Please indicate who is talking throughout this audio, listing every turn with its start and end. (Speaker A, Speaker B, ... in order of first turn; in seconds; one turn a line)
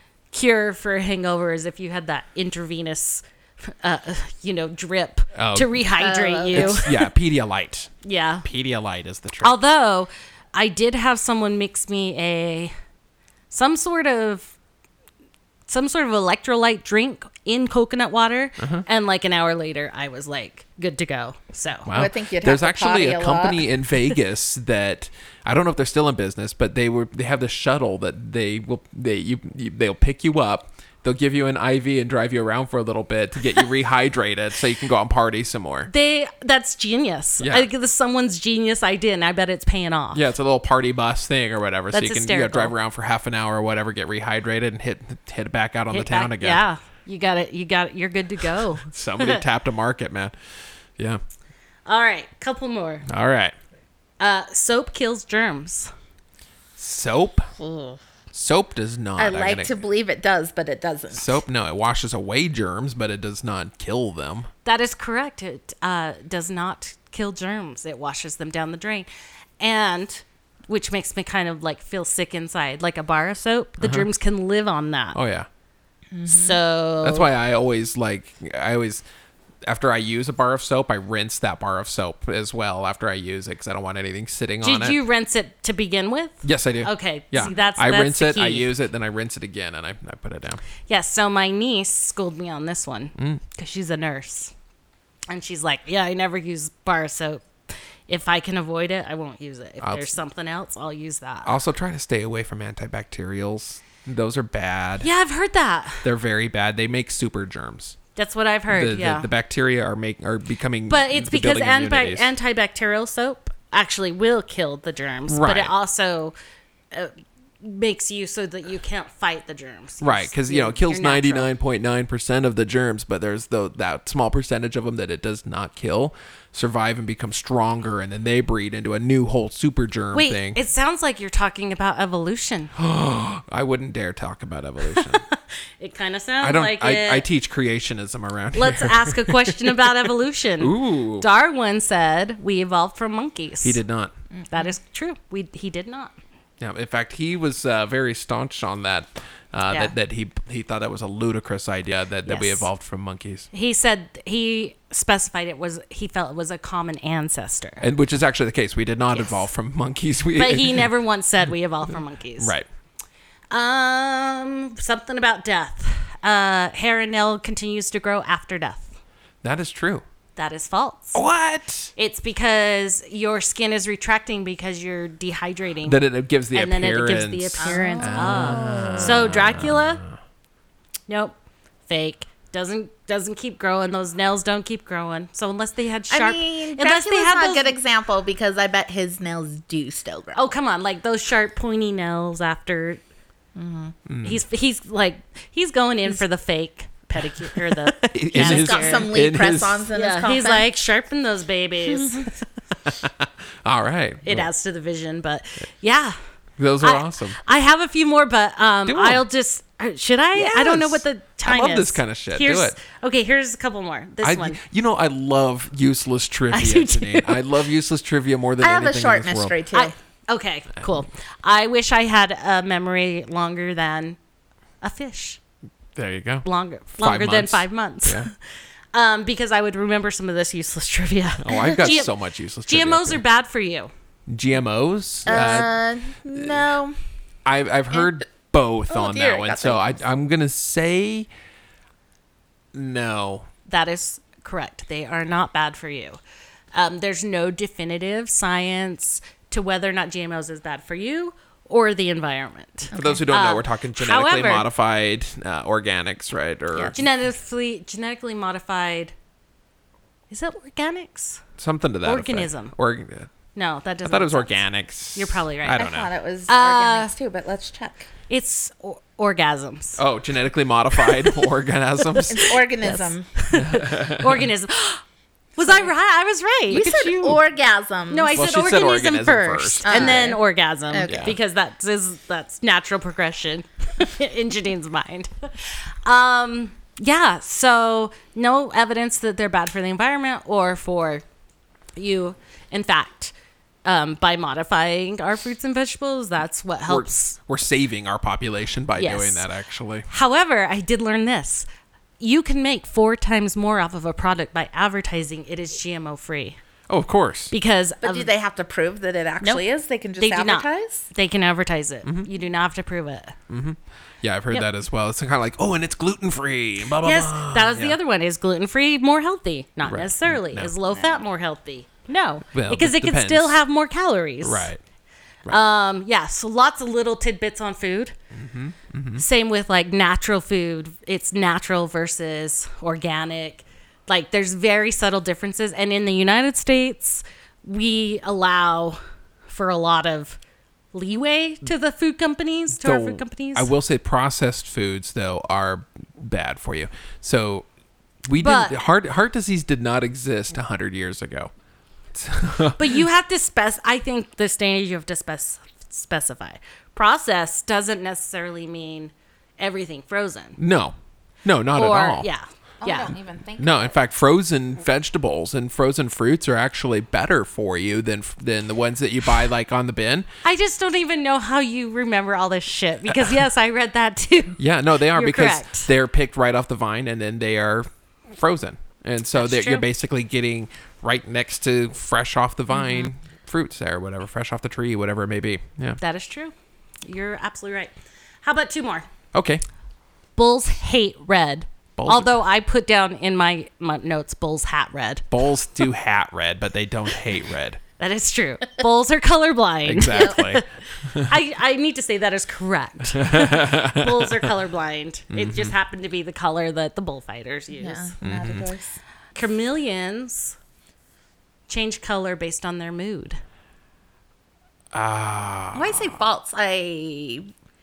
Speaker A: 0.3-7.0
Speaker B: 5.3-5.8
Speaker C: 6.0-6.9
Speaker B: 6.5-7.9
Speaker A: 8.0-8.5
Speaker B: 8.4-9.6
Speaker A: 9.4-12.7
Speaker A: 13.5-14.5
Speaker A: 15.7-21.9
Speaker B: 18.6-18.9
Speaker B: 21.9-35.9
Speaker C: 21.9-23.6
Speaker A: 35.9-40.2
Speaker B: 37.4-37.7
Speaker B: 40.1-46.6
Speaker A: 41.9-42.7
Speaker A: 45.9-49.4
Speaker B: 48.8-50.4
Speaker A: 51.9-53.1
Speaker B: 53.1-53.5
Speaker A: 54.2-55.9
Speaker B: 56.8-57.5
Speaker C: 57.6-58.0
Speaker B: 58.3-59.7
Speaker C: 59.2-61.4
Speaker B: 61.1-64.5
Speaker A: 64.7-69.1
Speaker A: 69.6-75.2
Speaker B: 73.8-74.1
Speaker B: 75.1-75.5
Speaker C: 76.1-76.6
Speaker A: 76.3-77.3
Speaker B: 77.0-79.0
Speaker B: 79.6-85.0
Speaker A: 84.6-88.7
Speaker B: 86.4-90.6
Speaker A: 90.9-94.5
Speaker B: 93.2-93.4
Speaker A: 95.3-101.5
Speaker B: 99.8-100.1
Speaker B: 101.5-105.1
Speaker A: 105.0-106.1
Speaker B: 106.0-108.0
Speaker A: 108.2-109.3
Speaker B: 108.7-112.3
Speaker A: 110.9-116.3
Speaker B: 115.3-115.7
Speaker A: 116.9-121.5
Speaker B: 120.0-130.6
Speaker A: 130.1-132.7
Speaker B: 132.8-135.2
Speaker A: 134.9-137.3
Speaker B: 136.4-139.7
Speaker A: 138.5-143.8
Speaker B: 140.6-141.3
Speaker B: 143.6-144.1
Speaker C: 144.4-144.7
Speaker A: 144.5-146.1
Speaker B: 146.6-153.5
Speaker A: 152.3-152.7
Speaker A: 153.5-157.8
Speaker B: 157.8-160.9
Speaker A: 160.3-162.6
Speaker B: 162.4-162.7
Speaker A: 163.5-168.9
Speaker B: 169.4-170.1
Speaker A: 170.4-171.2
Speaker B: 171.1-171.9
Speaker A: 172.0-176.0
Speaker B: 175.8-180.1
Speaker A: 176.5-180.0
Speaker C: 177.6-179.2
Speaker A: 181.1-181.4
Speaker A: 181.9-187.8
Speaker C: 186.1-190.4
Speaker A: 190.3-193.0
Speaker C: 193.6-194.0
Speaker B: 194.1-194.4
Speaker A: 194.2-199.1
Speaker B: 197.5-199.9
Speaker C: 198.3-200.7
Speaker A: 199.9-202.3
Speaker B: 202.8-204.5
Speaker A: 204.2-206.2
Speaker B: 206.6-207.4
Speaker A: 206.8-214.6
Speaker B: 208.9-209.2
Speaker B: 210.3-212.8
Speaker B: 214.2-219.6
Speaker A: 216.5-217.5
Speaker C: 218.6-219.9
Speaker A: 219.7-224.2
Speaker A: 224.8-225.4
Speaker B: 226.0-226.4
Speaker A: 226.4-228.4
Speaker B: 227.0-228.3
Speaker A: 228.9-232.1
Speaker B: 231.4-233.2
Speaker A: 232.7-233.9
Speaker B: 234.3-235.7
Speaker C: 235.3-237.0
Speaker B: 236.3-236.6
Speaker B: 237.4-241.3
Speaker C: 238.9-239.9
Speaker B: 242.7-243.5
Speaker A: 243.7-246.2
Speaker A: 246.7-254.7
Speaker C: 252.9-253.2
Speaker B: 252.9-257.0
Speaker A: 256.9-259.1
Speaker A: 260.3-261.4
Speaker B: 261.6-263.3
Speaker A: 262.0-262.8
Speaker A: 263.6-264.6
Speaker B: 264.0-266.1
Speaker A: 265.1-265.9
Speaker C: 265.8-268.1
Speaker A: 266.5-267.1
Speaker A: 268.3-270.0
Speaker B: 270.0-272.5
Speaker A: 271.0-271.4
Speaker A: 272.1-275.0
Speaker C: 272.3-273.3
Speaker B: 273.5-274.5
Speaker A: 275.6-277.1
Speaker C: 276.7-278.4
Speaker B: 276.8-277.4
Speaker A: 278.1-291.2
Speaker B: 278.3-280.3
Speaker C: 279.9-281.3
Speaker B: 281.1-281.4
Speaker A: 292.0-293.3
Speaker A: 293.9-297.3
Speaker B: 296.9-300.1
Speaker A: 299.0-299.5
Speaker A: 300.1-301.7
Speaker A: 302.2-306.6
Speaker B: 306.9-307.5
Speaker A: 307.5-308.3
Speaker C: 308.0-311.1
Speaker A: 310.2-313.4
Speaker B: 313.5-318.0
Speaker A: 317.0-324.7
Speaker B: 319.9-320.7
Speaker C: 320.9-321.2
Speaker B: 322.5-323.6
Speaker B: 324.4-324.8
Speaker A: 325.5-328.1
Speaker B: 328.3-329.2
Speaker A: 329.2-340.4
Speaker A: 340.9-343.7
Speaker B: 342.7-347.7
Speaker B: 348.2-351.5
Speaker A: 348.3-348.8
Speaker B: 352.1-353.0
Speaker A: 352.8-360.6
Speaker B: 360.6-362.3
Speaker A: 361.7-363.1
Speaker C: 362.8-364.0
Speaker B: 363.6-370.3
Speaker A: 370.4-375.9
Speaker B: 374.6-386.0
Speaker A: 379.4-379.9
Speaker A: 386.0-387.9
Speaker A: 388.4-389.1
Speaker B: 389.3-389.6
Speaker A: 390.4-395.2
Speaker B: 392.0-392.4
Speaker B: 395.3-397.8
Speaker A: 398.0-408.1
Speaker B: 399.9-401.3
Speaker B: 403.1-404.4
Speaker B: 405.3-405.7
Speaker C: 407.7-409.0
Speaker B: 408.2-408.7
Speaker A: 409.4-410.6
Speaker A: 411.7-413.4
Speaker B: 414.9-416.2
Speaker C: 415.7-417.5